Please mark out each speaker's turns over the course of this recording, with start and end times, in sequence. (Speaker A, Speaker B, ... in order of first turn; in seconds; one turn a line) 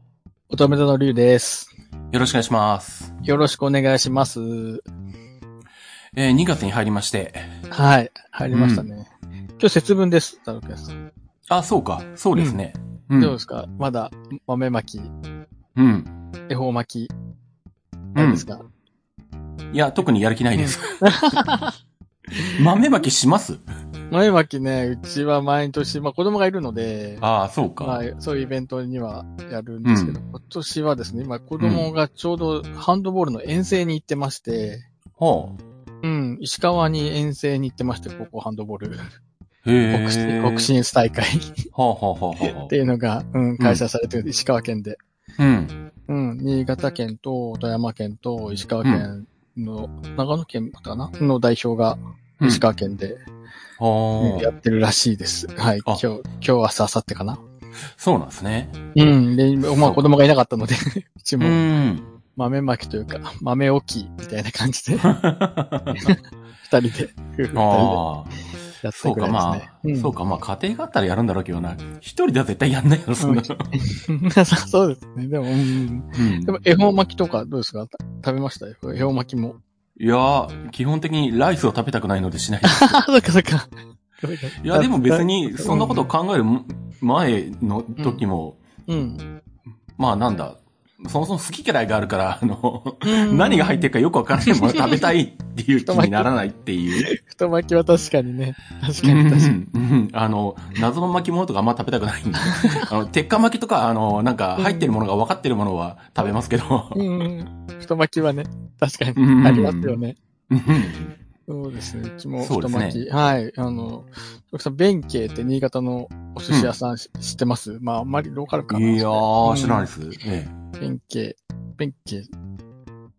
Speaker A: 0.5-1.7
Speaker B: 2.1-3.1
Speaker A: 3.2-4.8
Speaker B: 6.1-7.5
Speaker A: 7.7-11.0
Speaker B: 8.5-8.9
Speaker B: 11.5-13.3
Speaker A: 13.2-15.1
Speaker B: 15.8-16.1
Speaker A: 16.5-17.1
Speaker B: 18.1-18.5
Speaker A: 18.1-18.6
Speaker B: 19.7-21.0
Speaker A: 20.6-21.7
Speaker A: 22.4-22.6
Speaker B: 22.4-23.6
Speaker A: 24.1-27.2
Speaker B: 27.2-28.0
Speaker A: 27.8-34.9
Speaker B: 29.8-30.2
Speaker B: 31.6-31.9
Speaker B: 35.2-35.6
Speaker A: 36.0-39.0
Speaker B: 39.6-40.7
Speaker A: 39.9-41.6
Speaker B: 41.7-42.7
Speaker A: 42.4-45.0
Speaker B: 45.4-45.8
Speaker A: 46.1-53.2
Speaker B: 48.8-49.1
Speaker B: 53.8-54.5
Speaker A: 54.2-57.4
Speaker B: 58.0-58.8
Speaker A: 58.9-61.6
Speaker B: 59.7-60.1
Speaker B: 61.4-62.1
Speaker A: 62.4-65.1
Speaker B: 65.0-66.1
Speaker A: 66.0-68.0
Speaker B: 67.5-68.4
Speaker A: 68.8-70.1
Speaker B: 68.9-73.7
Speaker A: 73.2-79.6
Speaker B: 76.1-76.5
Speaker B: 80.0-83.0
Speaker A: 82.7-86.1
Speaker B: 84.6-88.6
Speaker A: 88.9-89.2
Speaker B: 90.0-97.1
Speaker A: 93.0-95.1
Speaker A: 95.8-96.3
Speaker A: 96.9-99.5
Speaker B: 99.0-107.2
Speaker A: 102.5-102.9
Speaker A: 104.6-105.0
Speaker A: 106.9-110.2
Speaker B: 109.2-110.0
Speaker B: 110.5-111.1
Speaker A: 111.5-119.9
Speaker B: 112.4-113.0
Speaker B: 118.7-120.5
Speaker A: 120.8-122.3